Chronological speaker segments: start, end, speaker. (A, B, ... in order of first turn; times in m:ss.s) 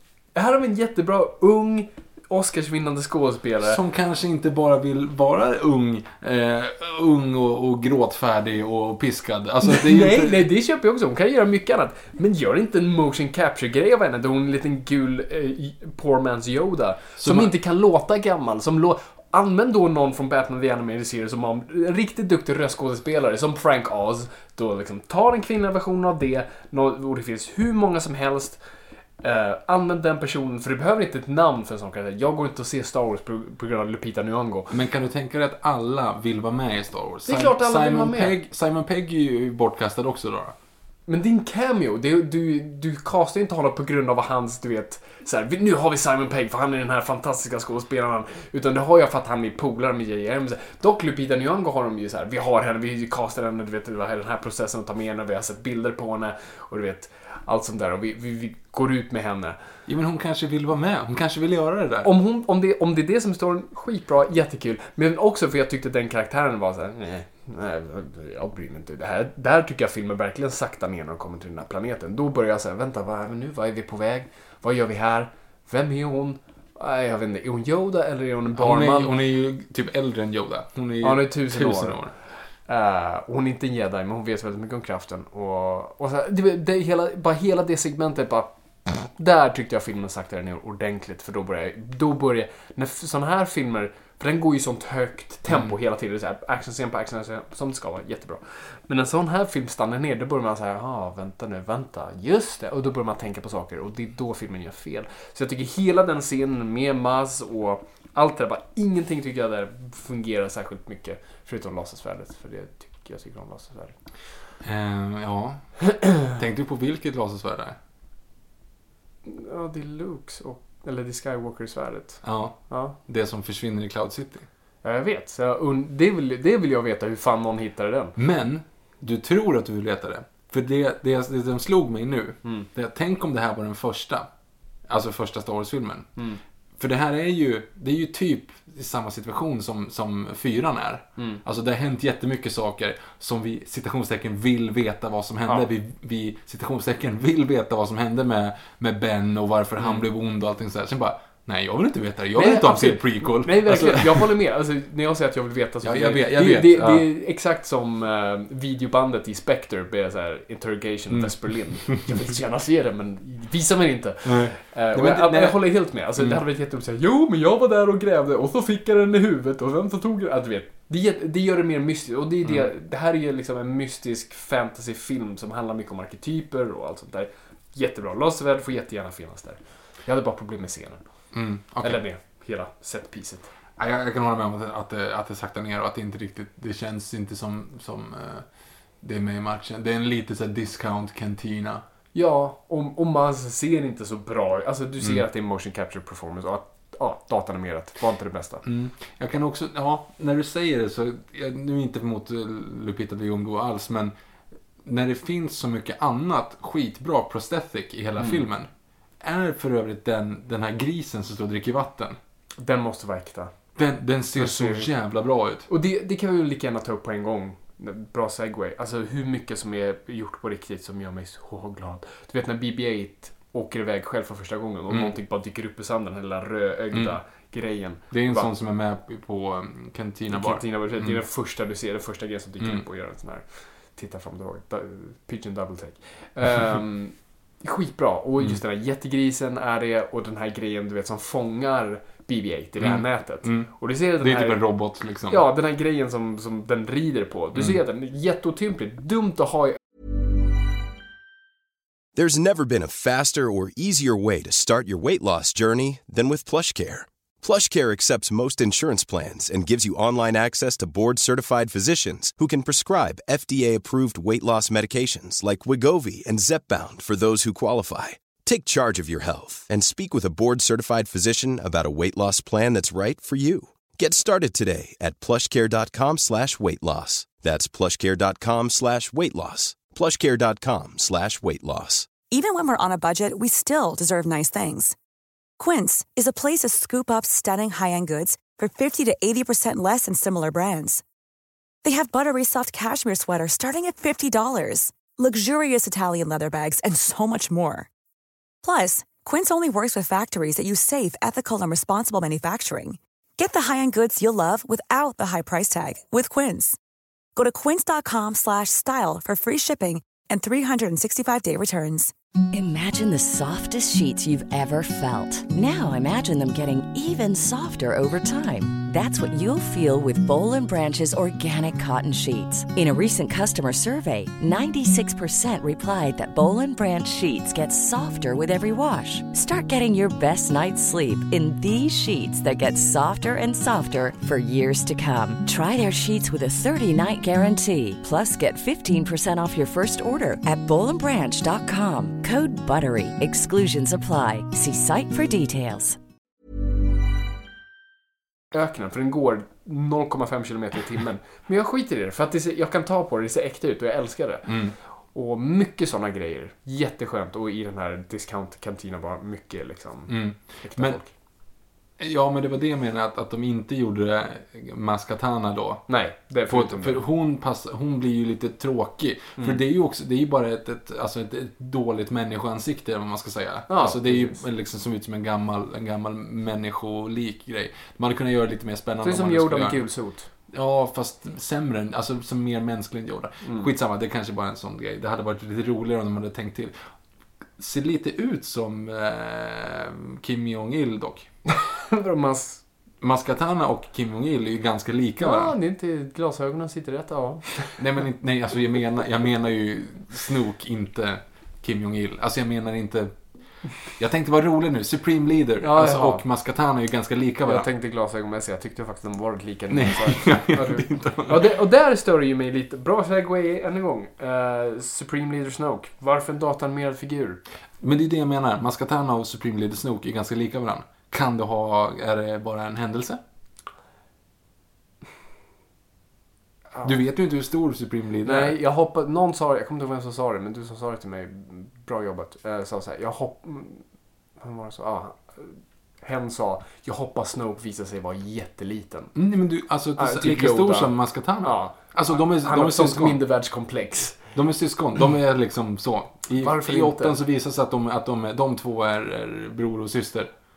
0:00.4-0:03.8 A
0:03.6-0:10.4 B
0:09.6-0:28.6 A
0:17.2-0:17.5 B
0:29.2-0:34.7 A
0:34.7-0:40.6 B
0:37.3-0:38.3 A
0:41.1-0:59.6 A
0:59.9-1:02.1 B
1:02.0-1:19.1 A
1:18.6-1:22.1 B
1:21.0-1:22.1 A
1:22.7-1:54.0 A
1:54.6-1:57.8 B
1:59.2-2:03.0 A
2:02.2-2:04.5 B
2:04.8-2:08.2 A
2:08.2-2:14.3 B
2:14.9-2:16.1 B
2:16.8-2:34.3 B
2:29.8-2:30.1 A
2:32.4-3:01.0 A
2:35.8-2:37.1 B
2:44.2-2:46.4 B
3:01.3-3:02.0 B
3:01.8-3:03.5 A
3:03.8-3:08.5 B
3:09.0-3:11.8 B
3:12.1-3:18.6 A
3:18.6-3:24.1 B
3:24.8-3:28.7 B
3:29.2-3:32.2 B
3:32.6-3:33.5 A
3:33.8-3:35.7 B
3:34.4-3:34.9 A
3:35.7-3:48.5 A
3:48.1-3:51.2 B
3:50.3-4:04.6 A
4:02.8-4:05.4 B
4:05.3-4:09.8 A
4:07.6-4:07.8 B
4:12.2-4:42.2 C
4:42.2-4:45.0 D
4:45.6-4:51.0 D
4:51.8-4:57.9 D
4:58.6-5:06.8 D
5:07.4-5:12.1 D
5:12.5-5:46.0 E
5:48.5-5:54.6 A
5:54.5-5:54.8 B
5:55.1-6:01.1 A
6:00.1-6:01.0 B
6:02.0-6:06.0 B
6:05.9-6:07.0 A
6:06.5-6:19.8 B
6:13.7-6:14.4 A
6:19.0-6:20.3 A
6:20.5-6:26.8 B
6:23.4-6:23.7 A
6:27.6-6:31.3 B
6:31.5-6:32.6 A
6:33.0-6:35.5 B
6:35.2-6:37.8 A
6:37.8-6:43.2 B
6:43.8-6:47.7 B
6:45.6-6:46.2 A
6:47.5-6:57.4 A
6:49.7-6:51.5 B
6:57.8-7:03.2 B
7:06.8-7:08.6 B
7:08.2-7:13.8 A
7:14.4-7:19.2 A
7:19.2-7:23.2 B
7:20.0-7:24.2 A
7:24.3-7:30.3 B
7:26.4-7:27.2 A